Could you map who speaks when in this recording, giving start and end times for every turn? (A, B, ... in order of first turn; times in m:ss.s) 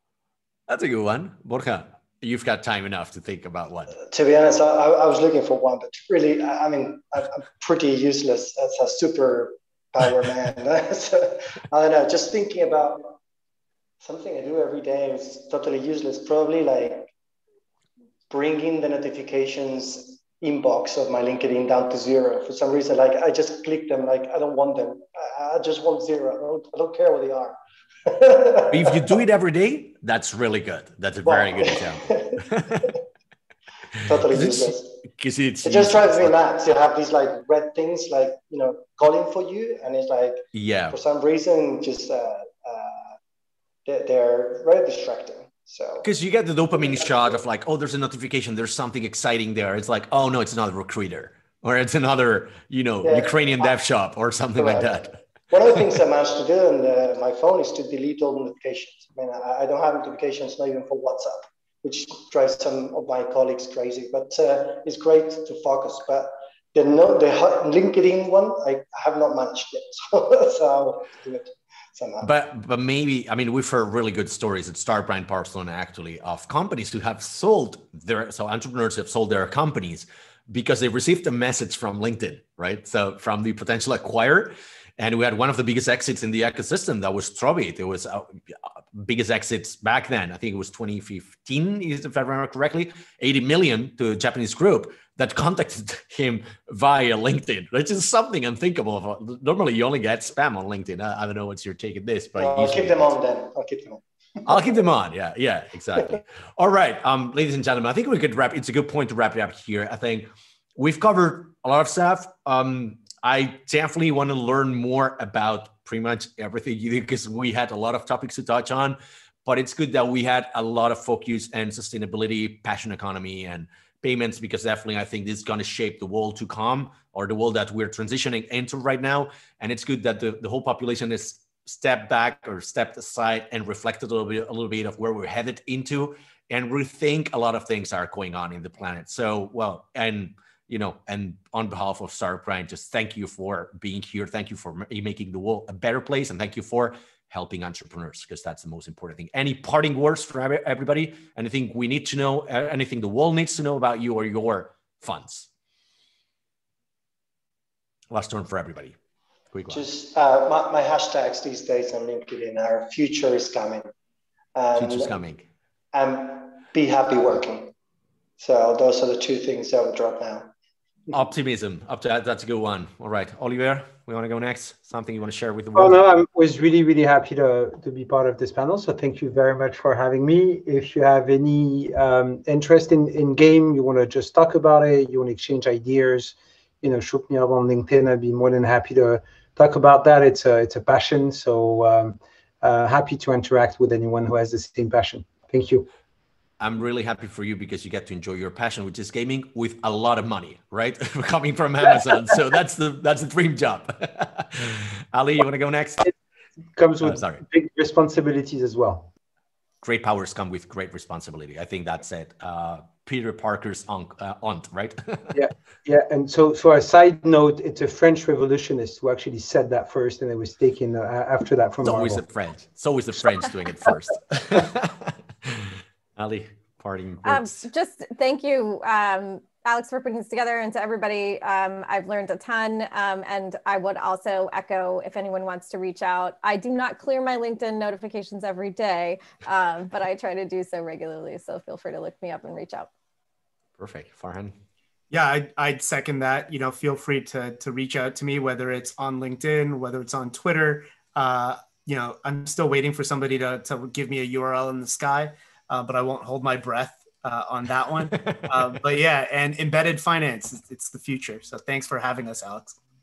0:00.7-0:04.0 A
0:04.1-0:13.2 B
0:14.0-0:17.1 B
0:18.3-0:29.2 B
0:28.7-0:32.9 A
0:31.2-0:32.9 B
0:34.0-0:35.0 B
0:34.1-0:36.4 A
0:35.6-0:43.2 B
0:40.5-0:41.0 A
0:43.9-0:46.1 B
0:46.0-0:55.2 A
0:46.8-0:47.4 B
0:53.0-0:53.8 B
0:54.6-1:12.3 B
1:12.2-1:43.1 A
1:42.4-1:44.6 B
1:44.5-2:35.5 A
2:38.1-2:39.0 A
2:39.5-2:39.8 A
2:39.7-2:43.9 B
2:44.6-2:45.1 B
2:44.8-2:45.5 A
2:45.9-2:47.7 B
2:48.4-2:50.5 B
2:51.1-2:56.0 A
2:55.8-3:15.9 C
3:16.6-3:26.1 A
3:26.8-3:29.1 C
3:27.0-3:27.4 A
3:29.8-3:35.4 A
3:35.3-3:42.2 C
3:41.8-3:47.6 A
3:47.2-4:02.9 D
4:03.8-4:04.5 A
4:05.1-4:22.8 E